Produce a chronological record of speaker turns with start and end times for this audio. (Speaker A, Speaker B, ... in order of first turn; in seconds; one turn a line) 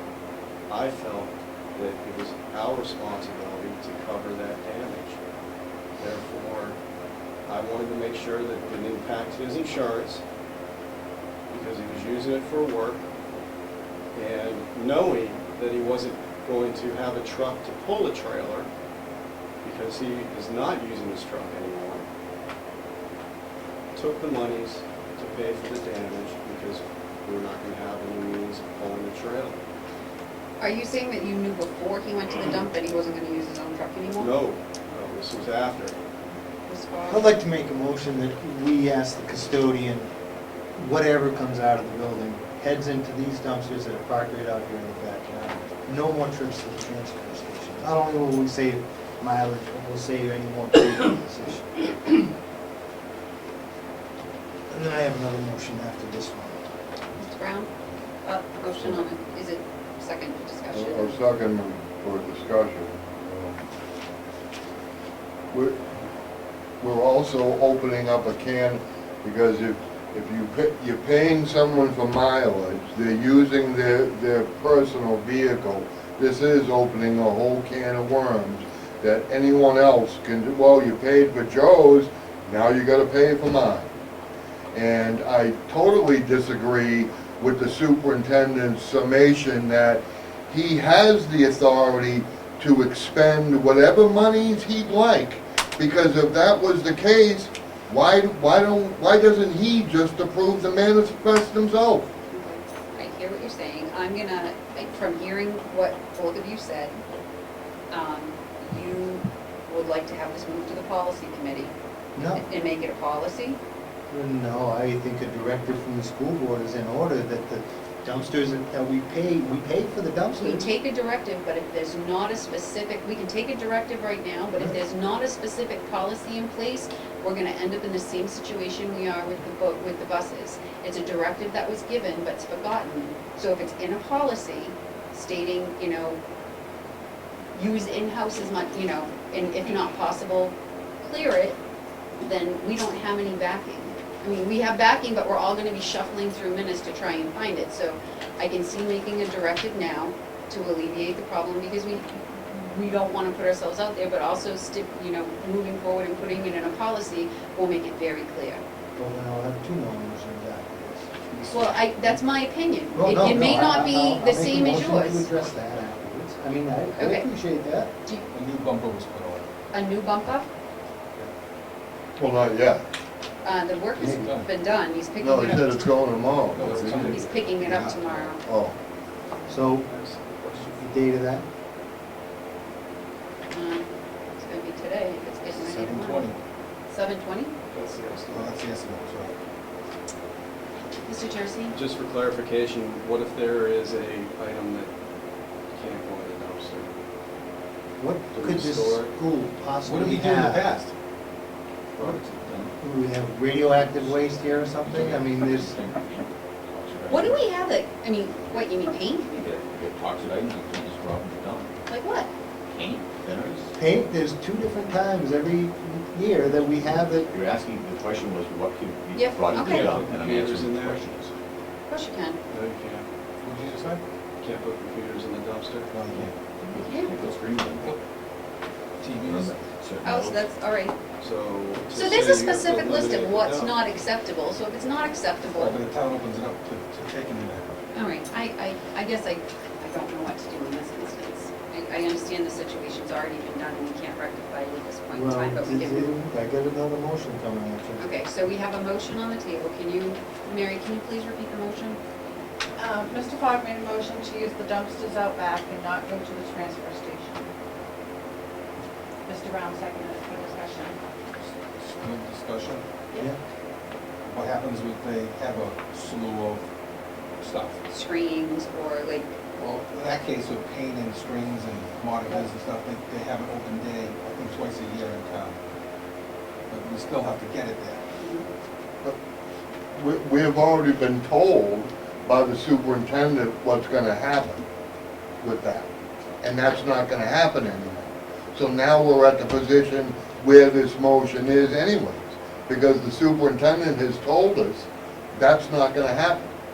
Speaker A: 0.7-5.3
Speaker A: 6.0-6.8
Speaker A: 7.5-10.2
Speaker A: 11.5-13.0
Speaker A: 14.2-18.7
Speaker A: 19.6-22.1
Speaker A: 23.9-29.6
Speaker B: 30.6-34.3
Speaker A: 34.2-36.0
Speaker B: 36.7-37.3
Speaker C: 37.1-40.1
Speaker C: 40.8-52.3
Speaker C: 54.7-56.6
Speaker B: 57.2-57.7
Speaker B: 58.2-61.2
Speaker D: 60.7-63.6
Speaker D: 65.5-65.8
Speaker D: 66.8-83.9
Speaker D: 84.7-102.1
Speaker B: 102.3-107.0
Speaker B: 107.9-111.7
Speaker C: 112.2-112.4
Speaker B: 112.3-113.6
Speaker C: 114.1-120.7
Speaker B: 120.4-136.2
Speaker B: 137.6-141.6
Speaker B: 142.2-158.6
Speaker C: 159.0-162.2
Speaker B: 161.5-165.3
Speaker C: 162.9-167.9
Speaker B: 167.0-167.3
Speaker E: 168.3-169.5
Speaker B: 169.7-170.5
Speaker D: 172.2-172.8
Speaker B: 173.4-175.9
Speaker E: 174.0-174.5
Speaker D: 175.2-177.2
Speaker E: 176.5-178.3
Speaker B: 176.9-178.4
Speaker D: 178.4-178.8
Speaker C: 179.5-181.4
Speaker A: 179.9-180.6
Speaker B: 183.5-186.3
Speaker E: 185.6-186.4
Speaker B: 186.9-187.6
Speaker A: 187.7-188.6
Speaker E: 188.3-189.4
Speaker B: 191.1-191.8
Speaker A: 191.7-194.9
Speaker A: 195.7-197.0
Speaker C: 198.0-200.8
Speaker A: 198.3-199.1
Speaker E: 199.8-200.9
Speaker F: 202.0-202.7
Speaker C: 202.8-205.8
Speaker F: 203.8-207.4
Speaker B: 207.1-209.3
Speaker F: 209.3-211.7
Speaker B: 211.9-212.3
Speaker F: 212.7-213.7
Speaker C: 213.8-217.3
Speaker F: 217.3-221.3
Speaker B: 219.2-220.0
Speaker A: 219.5-221.0
Speaker B: 221.9-222.4
Speaker A: 222.5-223.1
Speaker E: 223.4-224.0
Speaker A: 224.4-225.9
Speaker E: 225.9-226.4
Speaker F: 226.1-227.9
Speaker B: 226.8-227.1
Speaker E: 229.0-229.6
Speaker F: 229.2-230.4
Speaker B: 230.0-231.0
Speaker A: 231.2-233.7
Speaker B: 231.9-235.8
Speaker E: 235.6-237.7
Speaker B: 237.9-246.1
Speaker C: 245.1-248.2
Speaker B: 248.0-252.0
Speaker G: 252.8-257.5
Speaker G: 259.3-261.0
Speaker E: 261.8-262.9
Speaker E: 264.2-266.7
Speaker E: 267.4-267.8
Speaker B: 267.9-269.4
Speaker E: 269.6-275.6
Speaker E: 276.7-278.0
Speaker B: 278.2-278.5
Speaker D: 279.9-284.6
Speaker D: 285.4-285.9
Speaker D: 286.4-296.5